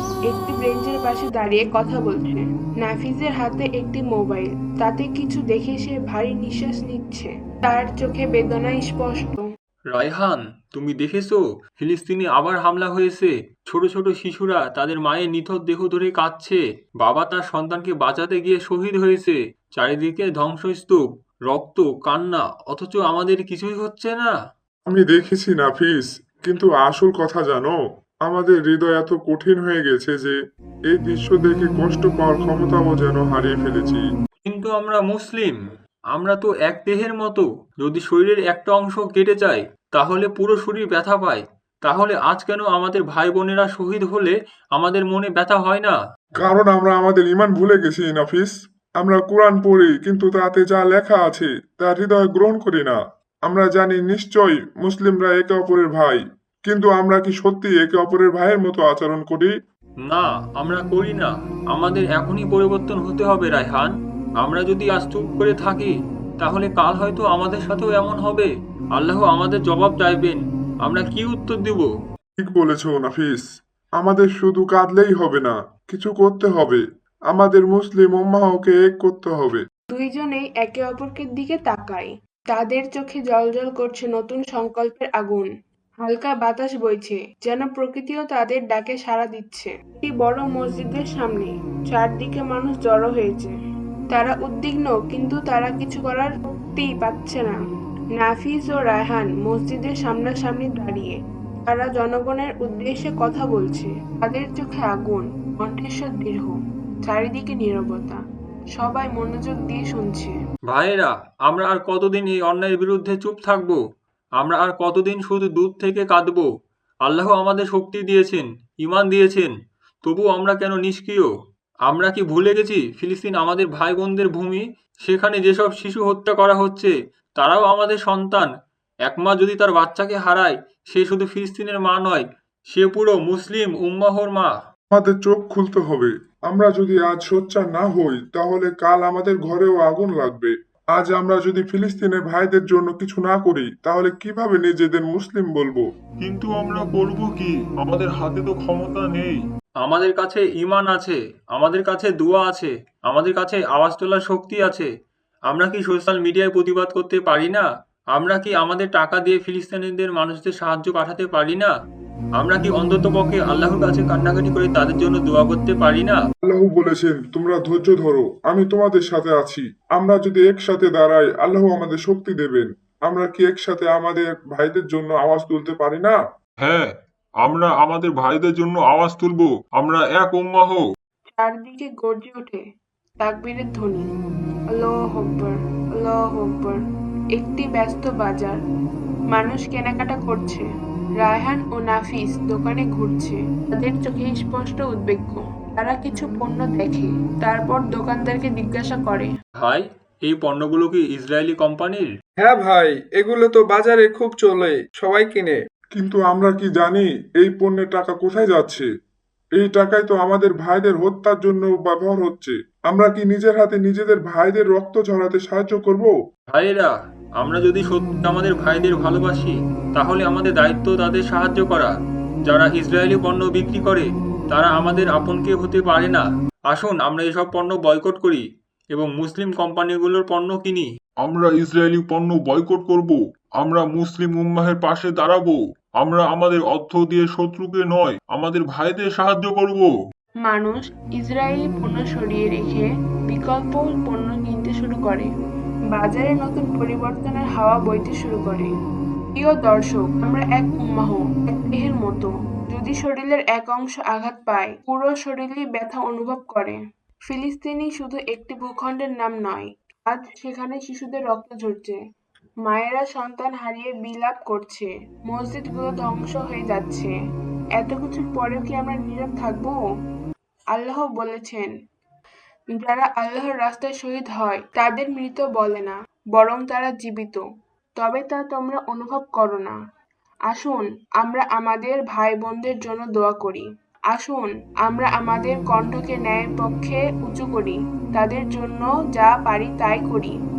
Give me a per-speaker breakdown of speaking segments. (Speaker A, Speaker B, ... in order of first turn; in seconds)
Speaker A: 0.3-9.4, 79.9-85.5, 86.0-93.5, 94.1-97.6, 98.2-106.5, 107.0-108.2, 108.8-110.3, 181.4-182.6, 183.2-184.1, 184.8-186.8, 187.4-188.6, 189.3-190.7, 191.2-199.3, 240.4-245.3, 245.9-248.7, 249.4-256.8, 257.3-262.0, 262.6-267.1, 267.8-269.8, 270.7-271.7, 272.8-277.4, 278.0-279.8, 280.5-290.3
Speaker B: 9.9-24.4, 34.4-35.6, 36.1-46.0, 60.1-71.9, 110.7-113.8, 114.4-116.5, 117.1-119.5, 120.0-121.3, 121.9-128.5, 129.1-134.5, 149.8-154.9, 155.5-161.7, 162.4-166.2, 199.6-202.1, 216.5-230.9
Speaker C: 24.9-30.4, 30.9-34.0, 46.4-59.5, 72.4-73.4, 74.0-79.6, 134.9-145.8, 166.4-176.2, 206.0-208.9, 209.6-216.1
Speaker D: 146.2-149.4, 176.6-176.9, 177.4-180.8, 231.2-239.9
Speaker E: 202.4-205.6